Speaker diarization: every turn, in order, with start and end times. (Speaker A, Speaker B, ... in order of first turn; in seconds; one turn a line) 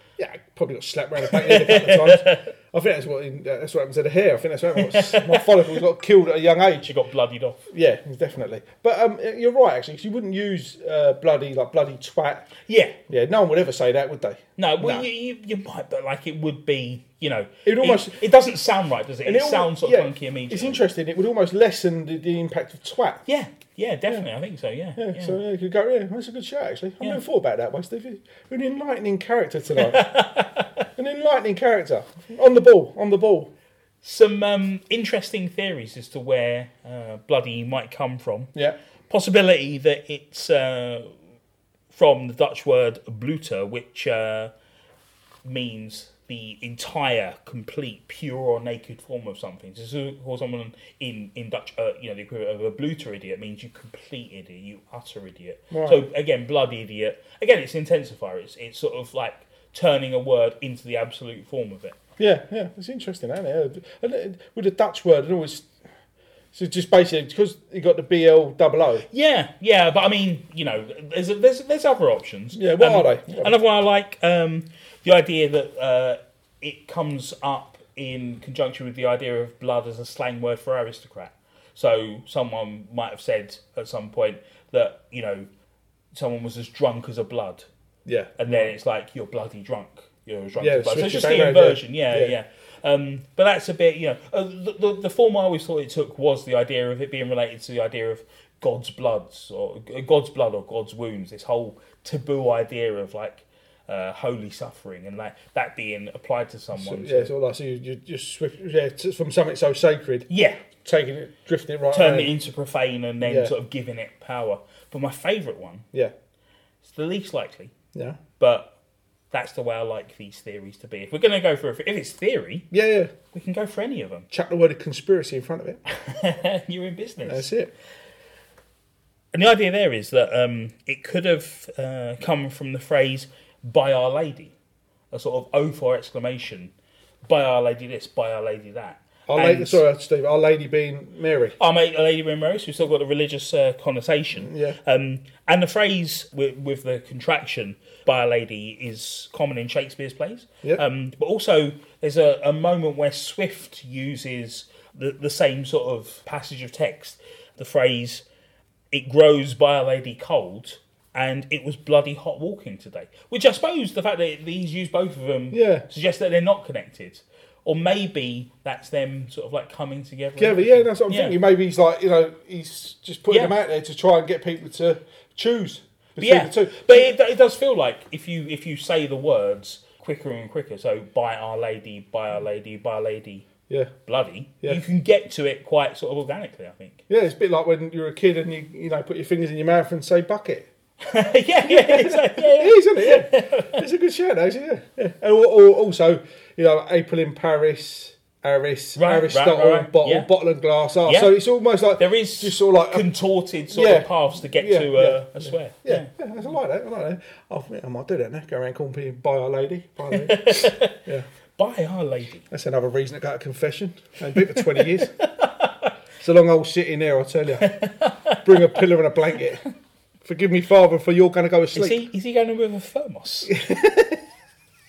Speaker A: 0.2-6.9
Speaker B: 1.2-2.5
Speaker B: 4.8-5.5
Speaker B: 6.8-7.6
Speaker A: 7.7-12.5
Speaker B: 12.7-13.0
Speaker A: 13.1-15.1
Speaker B: 14.6-20.8
Speaker A: 17.6-18.2
Speaker A: 19.2-23.2
Speaker B: 23.3-25.4
Speaker A: 24.9-30.1
Speaker B: 29.8-30.7
Speaker A: 30.9-33.5
Speaker B: 34.0-38.5
Speaker B: 39.1-41.1
Speaker B: 41.9-44.5
Speaker B: 45.4-62.0
Speaker A: 55.7-56.0
Speaker A: 62.2-65.7
Speaker A: 66.5-69.0
Speaker B: 69.1-85.5
Speaker A: 72.5-73.5
Speaker B: 86.1-87.7
Speaker A: 88.0-88.7
Speaker B: 88.4-107.3
Speaker A: 90.6-92.3
Speaker A: 106.7-112.3
Speaker B: 110.3-110.6
Speaker B: 111.9-115.8
Speaker A: 113.2-113.5
Speaker B: 116.8-117.7
Speaker A: 117.9-118.2
Speaker B: 118.4-118.7
Speaker B: 119.3-122.7
Speaker A: 122.7-123.1
Speaker B: 123.3-124.3
Speaker A: 124.3-125.8
Speaker B: 125.9-127.5
Speaker A: 127.2-127.7
Speaker B: 129.3-134.5
Speaker B: 135.1-136.7
Speaker B: 137.2-139.8
Speaker A: 139.3-141.6
Speaker B: 141.6-158.2
Speaker A: 144.3-144.8
Speaker B: 158.9-171.4
Speaker A: 165.5-165.8
Speaker A: 170.4-177.1
Speaker B: 173.3-173.6
Speaker B: 176.2-183.5
Speaker B: 184.1-187.0
Speaker A: 187.1-190.7
Speaker B: 191.0-193.8
Speaker A: 191.6-203.1
Speaker B: 198.9-200.3
Speaker B: 201.1-201.4
Speaker B: 201.9-206.1
Speaker A: 203.7-211.3
Speaker B: 210.1-211.0
Speaker B: 211.6-212.4
Speaker A: 212.5-215.1
Speaker B: 214.6-214.8
Speaker B: 215.4-215.9
Speaker A: 216.2-219.6
Speaker B: 217.7-218.4
Speaker A: 220.2-222.1
Speaker B: 221.7-223.6
Speaker A: 223.5-224.2